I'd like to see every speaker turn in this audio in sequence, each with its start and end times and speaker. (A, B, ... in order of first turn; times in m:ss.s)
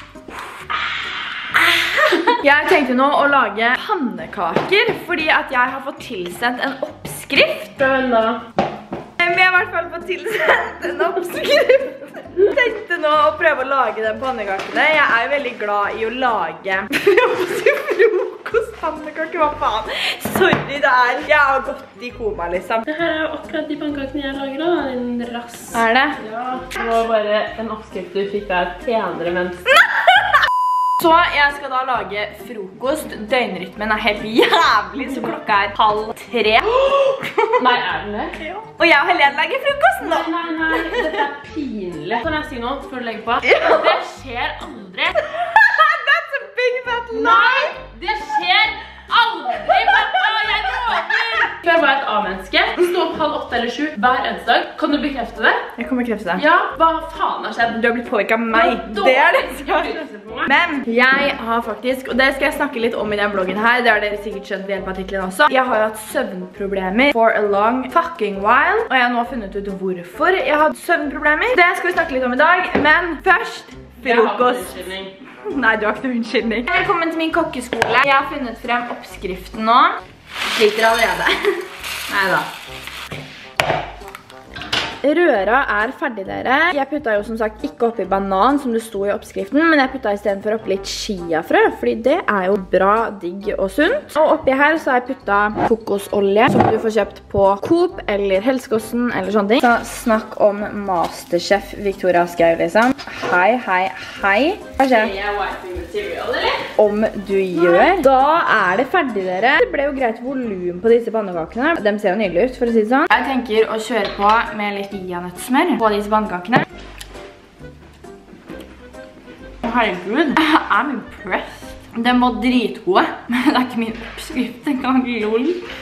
0:00.3-0:07.8 A
0:07.8-0:08.4 B
0:09.2-0:22.8 A
0:22.9-0:29.6 B
0:25.7-0:26.2 A
0:29.7-0:30.3 A
0:31.0-0:37.7 A
0:37.6-0:38.3 B
0:38.4-0:41.2 A
0:40.0-0:45.1 B
0:43.4-0:44.0 A
0:45.2-0:47.8 A
0:47.1-0:55.6 B
0:49.7-0:51.2 A
0:55.7-0:56.4 A
0:56.4-0:57.8 B
0:57.7-1:19.9 A
0:58.5-1:00.5 B
1:14.0-1:15.1 B
1:20.4-1:22.5 A
1:25.0-1:45.1 A
1:44.9-1:46.6 B
1:46.7-1:56.6 A
1:59.6-2:05.6 A